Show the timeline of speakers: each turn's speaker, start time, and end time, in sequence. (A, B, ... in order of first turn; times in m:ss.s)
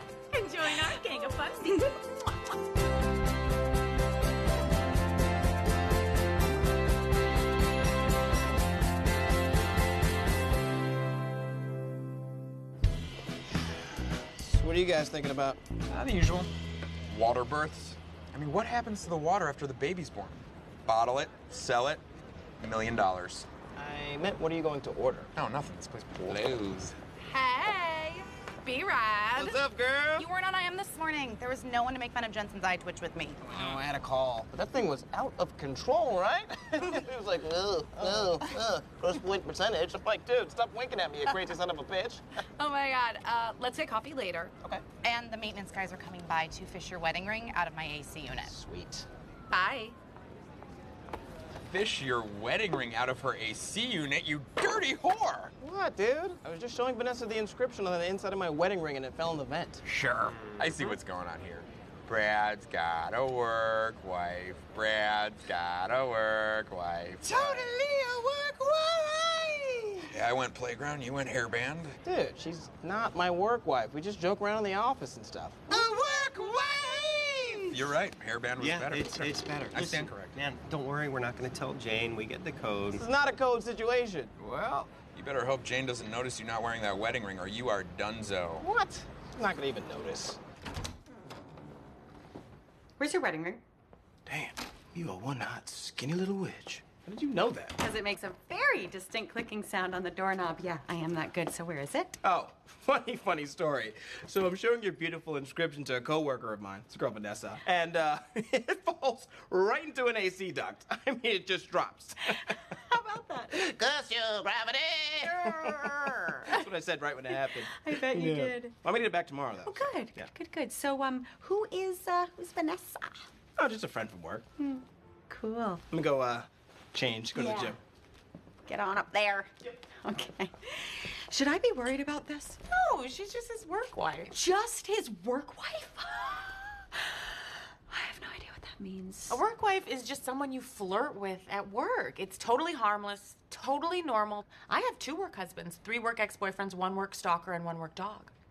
0:00.3-0:02.3 A
0:14.4-0:15.6 B
0:15.9-0:16.5 C
0:17.1-0:22.0 C
0:22.6-0:23.5 C
0:23.8-0:25.3 B
0:25.4-0:27.0 C
0:27.3-0:29.6 D
0:29.3-0:30.3 B
0:30.2-0:33.5 D
0:33.4-0:42.2 B
0:42.7-0:44.4 D
0:45.0-0:48.5 D
0:48.4-0:49.1 B
0:49.5-0:50.0 D
0:51.7-0:55.5 C
0:55.6-0:59.8 B
0:59.8-1:07.8 C
1:07.2-1:10.1 B
1:10.1-1:12.0 C
1:12.0-1:17.8 B
1:15.9-1:16.2 C
1:17.7-1:20.3 C
1:18.6-1:23.0 E
1:22.9-1:24.3 B
1:24.4-1:28.7 C
1:28.6-1:30.4 B
1:33.0-1:33.6 F
1:34.3-1:37.8 B
1:37.8-1:42.2 F
1:42.2-1:52.2 B
1:52.7-1:53.6 F
1:53.5-2:00.3 B
1:57.7-1:58.8 F
1:59.6-2:03.3 F
2:03.6-2:04.4 B
2:04.6-2:05.8 F
2:05.9-2:07.8 B
2:07.3-2:07.8 F
2:08.7-2:12.6 F
2:12.7-2:14.3 A
2:14.4-2:16.6 F
2:17.9-2:19.4 F
2:19.3-2:28.3 A